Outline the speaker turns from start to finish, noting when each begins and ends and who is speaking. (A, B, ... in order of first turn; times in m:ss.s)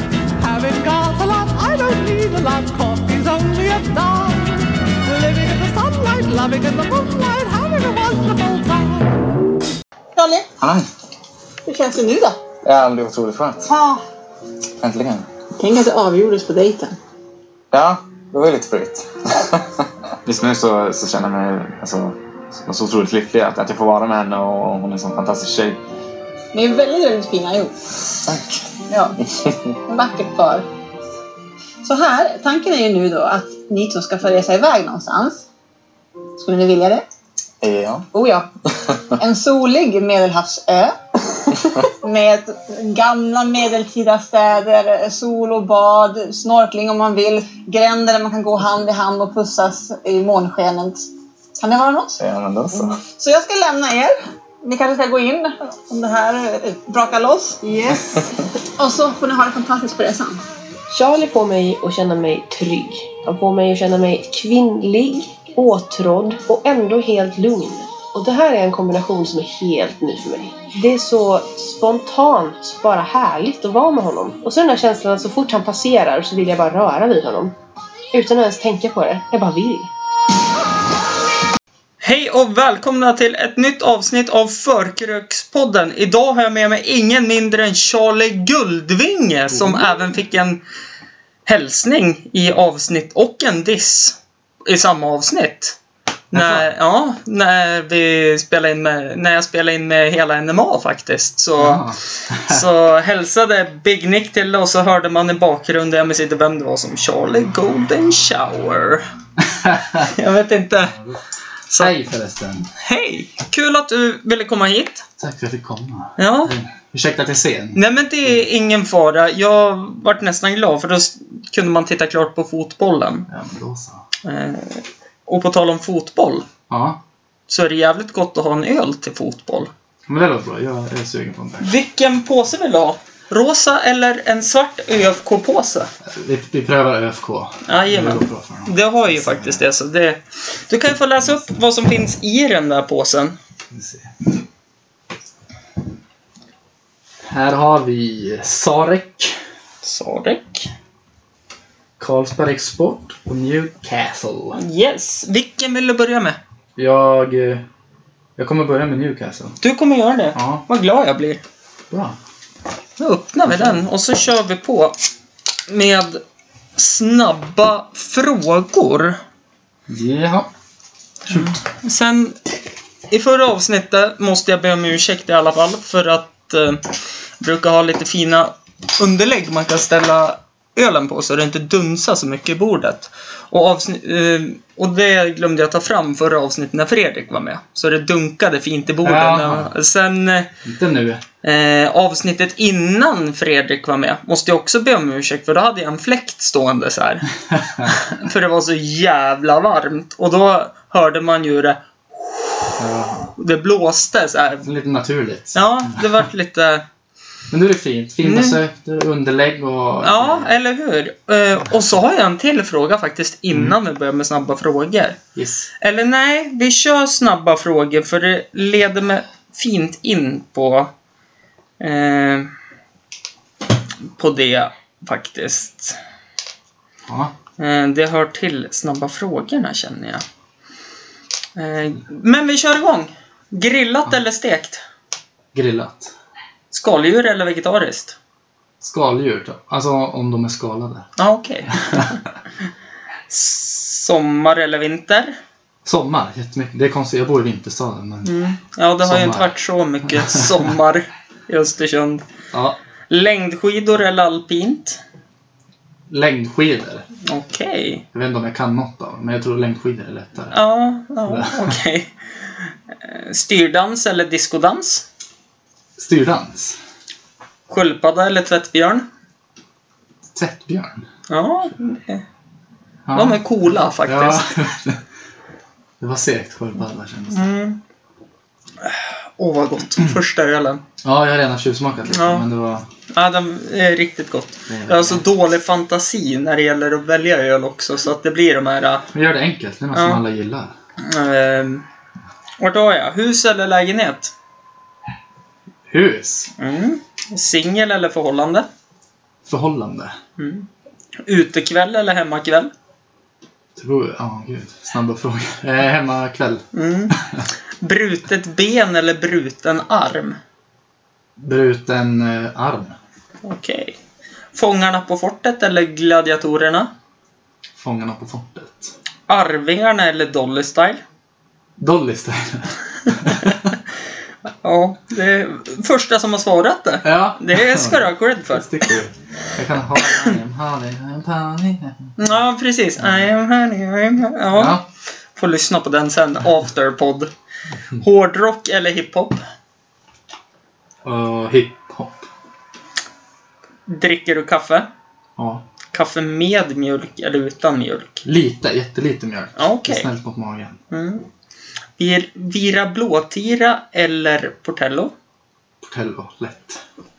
0:00.4-0:09.1 A
0:10.2-0:10.5 B
0:10.6-0:10.9 C
0:11.7-0:12.4 B
0:12.6-0:13.7 C
0:13.7-0:14.0 B
0:14.8-0:15.3 C
0:15.6-0:17.0 B
0:17.7-0:25.8 C
0:26.5-0:27.7 B
0:28.9-0:29.2 B
0:29.9-0:30.7 B
0:31.8-0:35.4 B
0:36.4-0:37.0 B
0:37.6-0:38.1 C
0:38.1-0:38.5 B
0:39.2-0:41.0 B
0:42.0-0:51.1 B
0:51.6-0:52.2 B
0:52.2-0:53.0 C
0:52.8-0:58.2 B
0:58.8-1:00.4 B
1:00.9-1:17.5 D
1:18.1-1:19.9 D
1:22.0-1:30.6 E
1:29.5-1:29.9 F
1:31.5-1:35.8 E
1:36.3-1:36.7 F
1:36.3-1:49.1 E
1:41.6-1:42.7 F
1:49.4-1:50.1 F
1:50.0-1:51.0 E
1:50.8-1:51.2 F
1:51.8-1:52.7 F
1:52.8-1:55.0 E
1:55.2-1:58.4 F
1:56.2-1:56.5 E
1:57.8-2:03.3 E
2:03.3-2:04.0 F
2:04.2-2:06.5 E
2:06.7-2:07.0 F
2:07.5-2:09.7 E
2:10.1-2:11.7 F
2:11.6-2:15.9 E
2:16.1-2:19.7 F
2:17.7-2:23.4 E
2:23.7-2:24.1 F
2:27.3-2:29.4 F
2:29.8-2:30.7 E
2:32.0-2:34.6 F
2:34.6-2:36.4 E
2:36.8-2:37.6 F
2:38.4-2:39.6 F
2:39.6-2:41.4 E
2:40.3-2:40.7 F
2:41.9-2:42.2 F
2:43.0-2:45.0 E
2:43.5-2:43.8 F
2:45.7-2:46.2 E
2:46.8-2:49.2 E
2:49.9-2:50.5 F
2:51.3-2:51.6 F
2:51.3-2:52.4 E
2:53.1-3:10.5 E
3:09.0-3:09.7 F
3:10.6-3:11.2 F
3:11.4-3:17.3 E
3:17.5-3:18.0 F
3:17.8-3:24.7 E
3:22.8-3:23.3 F
3:24.6-3:26.2 F
3:25.6-3:26.8 E
3:27.5-3:30.5 F
3:28.2-3:28.6 E
3:30.0-3:35.2 E
3:35.4-3:35.7 F
3:35.8-3:40.9 E
3:41.8-3:42.5 E
3:44.2-3:46.0 E
3:47.1-3:47.3 F
3:47.6-3:50.2 E
3:51.6-3:54.8 E
3:55.5-3:56.1 F
3:56.7-3:58.2 E
3:58.8-4:01.1 F
4:01.2-4:02.2 E
4:01.7-4:02.1 F
4:03.3-4:05.4 E
4:05.8-4:08.4 F
4:08.2-4:12.2 E
4:09.0-4:09.5 F
4:10.1-4:10.5 F
4:12.5-4:12.8 F
4:13.1-4:15.0 E
4:16.1-4:17.1 F
4:17.2-4:18.0 E
4:18.1-4:20.6 F
4:20.5-4:25.0 E
4:21.3-4:21.7 F
4:26.0-4:26.8 F
4:27.7-4:29.1 E
4:30.3-4:31.1 F
4:31.3-4:32.2 E
4:33.1-4:33.4 F
4:33.2-4:34.4 E
4:34.0-4:35.0 F
4:36.0-4:37.5 F
4:37.3-4:37.8 E
4:38.8-4:40.8 E
4:41.0-4:42.9 F
4:42.1-4:42.5 E
4:43.1-4:49.0 E
4:44.7-4:45.2 F
4:49.1-4:50.7 F
4:49.9-4:50.2 E
4:51.0-4:51.8 E
4:52.6-4:54.3 E
4:55.9-4:56.5 F
4:56.6-4:58.7 E
4:59.4-5:00.2 F
5:00.4-5:00.7 E
5:01.3-5:02.7 E
5:03.8-5:07.5 F
5:06.7-5:07.2 E
5:07.8-5:10.4 E
5:11.4-5:13.0 F
5:13.4-5:14.0 E
5:14.5-5:16.9 E
5:17.8-5:18.9 F
5:19.3-5:21.0 E
5:21.8-5:23.8 F
5:24.6-5:29.0 E
5:27.0-5:32.1 F
5:32.2-5:34.8 E
5:33.0-5:33.3 F
5:34.5-5:34.8 F
5:35.4-5:37.3 E
5:38.0-5:39.4 E
5:41.0-5:42.3 F
5:43.9-5:44.9 E
5:45.4-5:45.6 F
5:45.9-5:48.2 E
5:48.2-5:50.8 F
5:49.6-5:50.1 E
5:50.9-5:51.3 E
5:52.0-5:55.1 E
5:55.8-5:56.8 F